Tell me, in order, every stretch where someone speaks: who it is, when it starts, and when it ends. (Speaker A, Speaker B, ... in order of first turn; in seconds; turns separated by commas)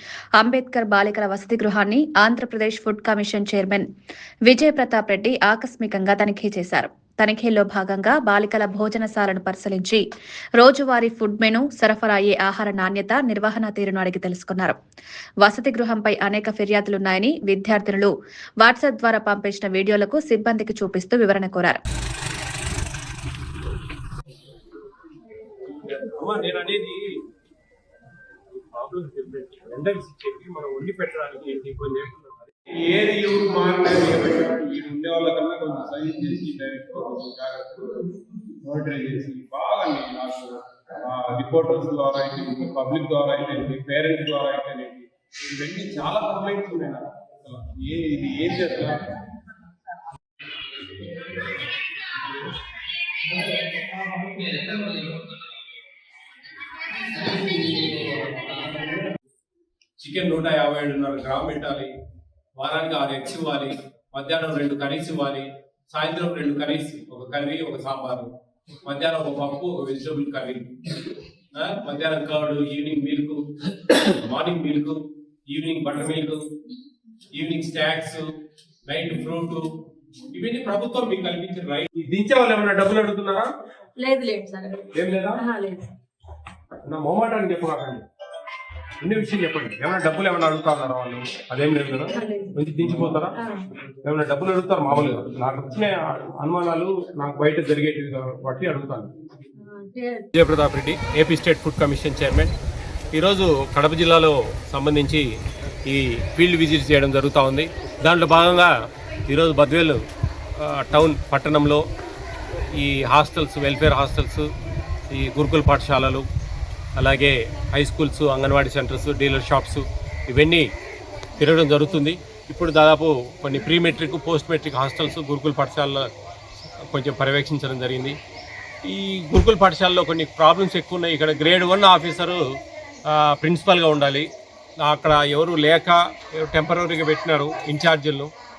Speaker A: 0.4-3.9, Speaker A: 4.5-10.0, Speaker A: 10.6-14.8, Speaker A: 15.4-21.8, Speaker B: 25.6-27.0, Speaker B: 28.5-38.1, Speaker B: 38.6-49.2, Speaker B: 54.7-55.1, Speaker B: 57.2-59.0, Speaker B: 60.0-61.9, Speaker B: 62.6-68.3, Speaker B: 68.8-70.7, Speaker B: 71.5-76.4, Speaker B: 77.3-78.2, Speaker B: 78.9-79.7, Speaker B: 80.2-83.5, Speaker C: 84.0-85.9, Speaker B: 84.9-85.4, Speaker B: 86.9-88.0, Speaker B: 89.0-93.4, Speaker C: 92.1-92.6, Speaker C: 93.3-93.7, Speaker B: 94.0-99.1, Speaker C: 99.6-100.3, Speaker B: 100.3-102.5, Speaker B: 103.1-105.3, Speaker B: 105.9-108.7, Speaker B: 109.3-110.0, Speaker B: 110.6-111.8, Speaker B: 112.7-114.5, Speaker B: 115.1-116.3, Speaker B: 117.0-120.7, Speaker B: 121.4-126.1, Speaker B: 126.8-128.2, Speaker B: 128.8-132.4, Speaker B: 133.1-134.3, Speaker B: 134.8-138.3